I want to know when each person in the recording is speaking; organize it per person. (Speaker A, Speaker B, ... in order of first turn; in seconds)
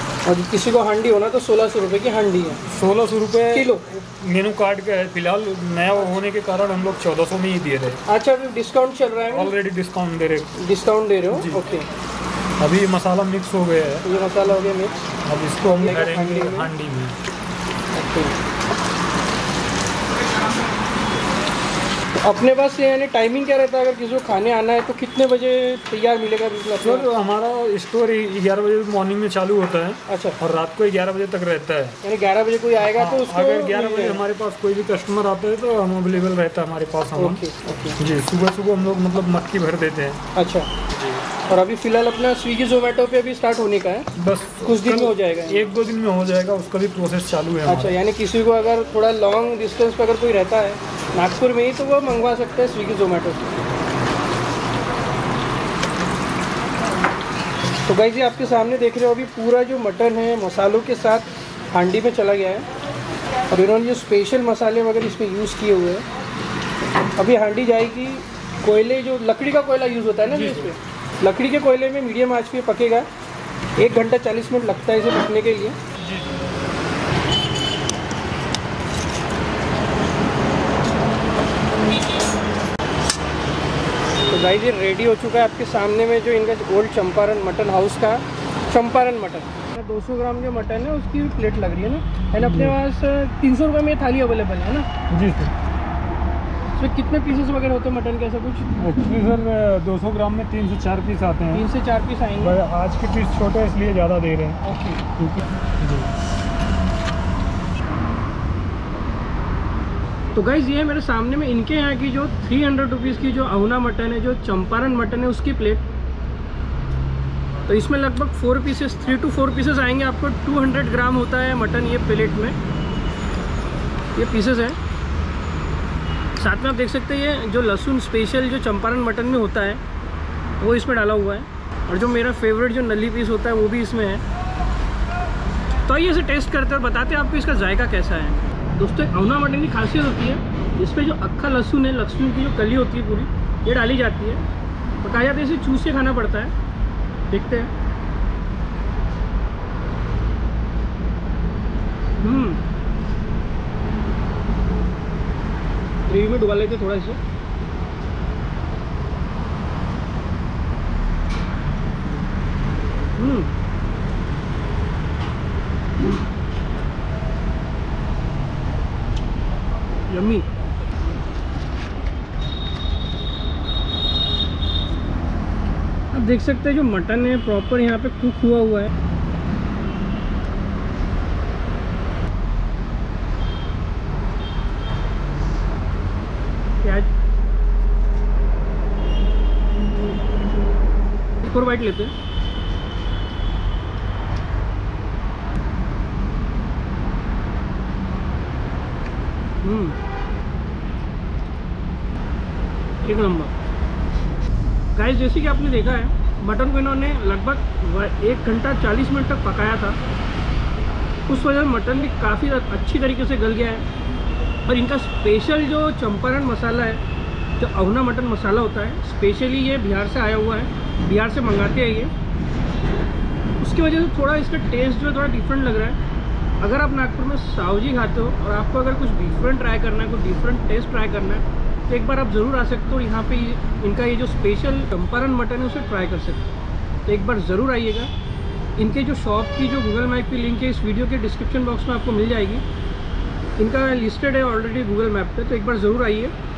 Speaker A: 0.2-2.6, 3.5-3.8, 8.1-9.5, 10.6-11.9, 14.0-15.1, 15.8-16.7, 17.9-18.4, 22.2-27.1, 30.1-30.4, 32.0-34.2, 37.2-38.0, 40.3-40.7, 41.5-44.1, 44.6-45.7, 47.7-53.4, 57.9-62.7, 63.5-66.0, 67.2-73.1, 73.8-75.8, 84.3-94.9, 96.8-98.7, 101.5-102.6, 104.6-105.0, 110.3-115.8, 117.7-122.6, 124.2-124.8, 126.4-129.8, 130.6-134.2, 135.8-144.4, 145.0-146.5, 147.3-147.7, 152.2-152.6, 156.1-157.2, 163.2-163.5, 170.1-170.5, 176.1-178.9, 186.8-187.1, 191.4-192.1, 199.6-200.0, 203.0-203.5, 204.9-210.0, 211.3-213.8, 214.7-217.0, 217.6-222.1, 223.6-226.0, 226.6-236.5, 237.1-238.1, 238.8-242.6, 243.6-246.3
Speaker B: 2.7-8.0, 9.3-10.5, 11.3-11.6, 12.6-14.1, 15.2-17.2, 26.8-32.0, 32.8-37.4, 38.0-40.2, 40.9-41.2, 44.2-48.0, 70.3-70.7, 76.0-76.3, 92.3-92.8, 95.1-95.5, 98.8-101.7, 102.4-104.6, 105.2-106.1